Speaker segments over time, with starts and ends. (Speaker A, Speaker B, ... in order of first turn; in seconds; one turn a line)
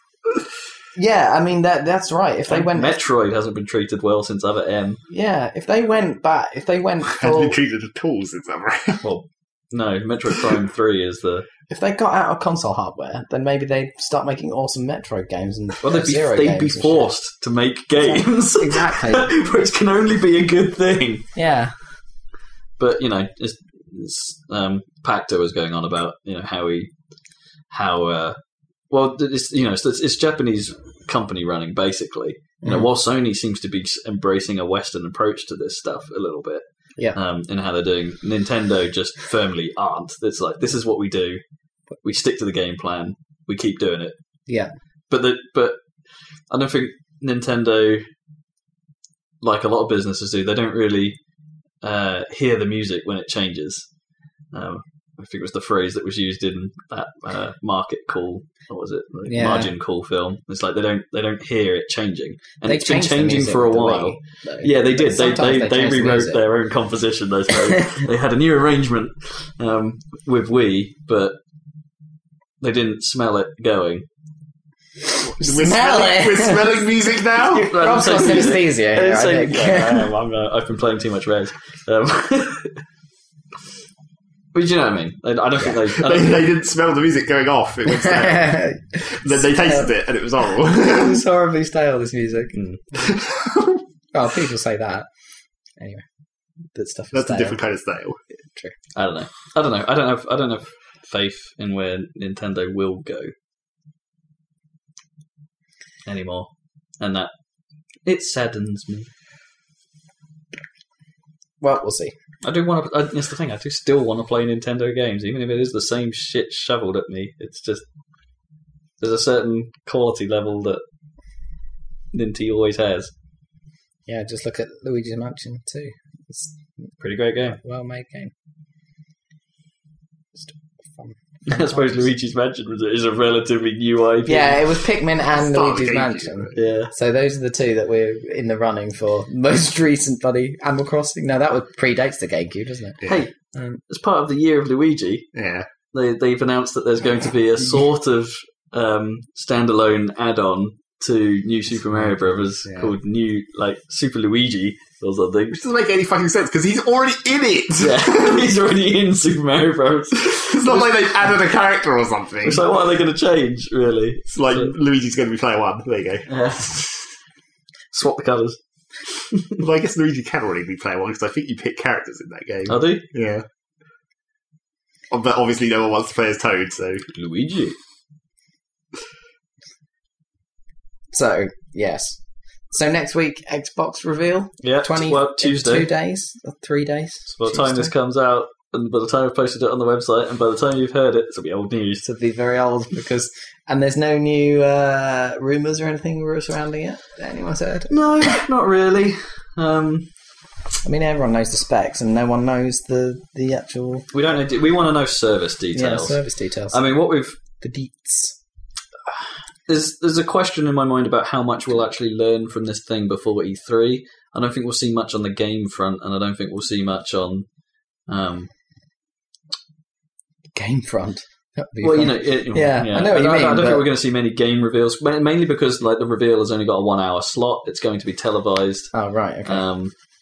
Speaker A: 0.9-3.0
Speaker B: 2.5-5.0
Speaker A: 5.1-7.5
Speaker C: 7.1-9.0
Speaker B: 9.0-11.5
Speaker A: 11.7-17.1
Speaker B: 15.8-21.3
Speaker A: 18.0-19.3
Speaker A: 21.4-21.7
Speaker B: 22.8-26.9
Speaker B: 27.7-28.4
Speaker B: 28.9-36.6
Speaker B: 37.1-41.4
Speaker B: 42.0-44.1
Speaker B: 45.1-45.8
Speaker B: 46.5-48.1
Speaker B: 49.4-51.2
Speaker B: 51.8-53.9
Speaker B: 54.5-71.3
Speaker A: 59.3-59.7
Speaker A: 62.6-66.4
Speaker B: 72.6-74.1
Speaker A: 75.2-76.8
Speaker C: 75.3-77.7
Speaker B: 77.4-82.8
Speaker A: 77.7-80.1
Speaker B: 84.5-86.5
Speaker C: 85.8-91.2
Speaker A: 87.9-89.9
Speaker A: 90.7-93.1
Speaker B: 92.5-92.8
Speaker C: 93.0-93.8
Speaker A: 94.1-95.1
Speaker A: 95.8-96.0
Speaker A: 96.7-97.6
Speaker C: 97.1-98.2
Speaker B: 99.0-103.3
Speaker B: 106.1-106.5
Speaker B: 107.0-107.3
Speaker B: 108.1-109.1
Speaker A: 111.6-112.1
Speaker B: 112.4-117.8
Speaker B: 119.0-120.8
Speaker B: 122.1-123.1
Speaker A: 124.1-126.6
Speaker B: 127.0-127.6
Speaker A: 127.6-128.3
Speaker A: 130.4-132.1
Speaker B: 131.5-134.8
Speaker A: 134.3-143.0
Speaker C: 135.3-136.6
Speaker B: 136.6-136.9
Speaker A: 143.5-143.8
Speaker B: 143.9-145.3
Speaker C: 145.3-145.7
Speaker B: 145.9-155.6
Speaker C: 152.7-152.9
Speaker C: 155.5-158.5
Speaker B: 157.8-161.1
Speaker C: 160.2-162.6
Speaker B: 162.4-164.7
Speaker C: 164.3-166.3
Speaker B: 166.3-167.1
Speaker B: 167.9-168.6
Speaker B: 169.1-169.6
Speaker C: 169.6-173.4
Speaker B: 172.7-173.1
Speaker C: 175.1-177.1
Speaker B: 177.1-177.8
Speaker A: 181.1-187.9
Speaker B: 184.6-185.9
Speaker B: 187.3-192.0
Speaker A: 192.0-198.4
Speaker B: 197.9-200.1
Speaker A: 200.8-204.1
Speaker B: 204.1-206.2
Speaker A: 205.7-206.9
Speaker B: 206.7-207.4
Speaker A: 207.6-208.4
Speaker B: 209.7-217.5
Speaker B: 218.1-218.5
Speaker A: 220.6-223.8
Speaker B: 221.8-228.9
Speaker A: 228.9-229.6
Speaker B: 229.5-229.9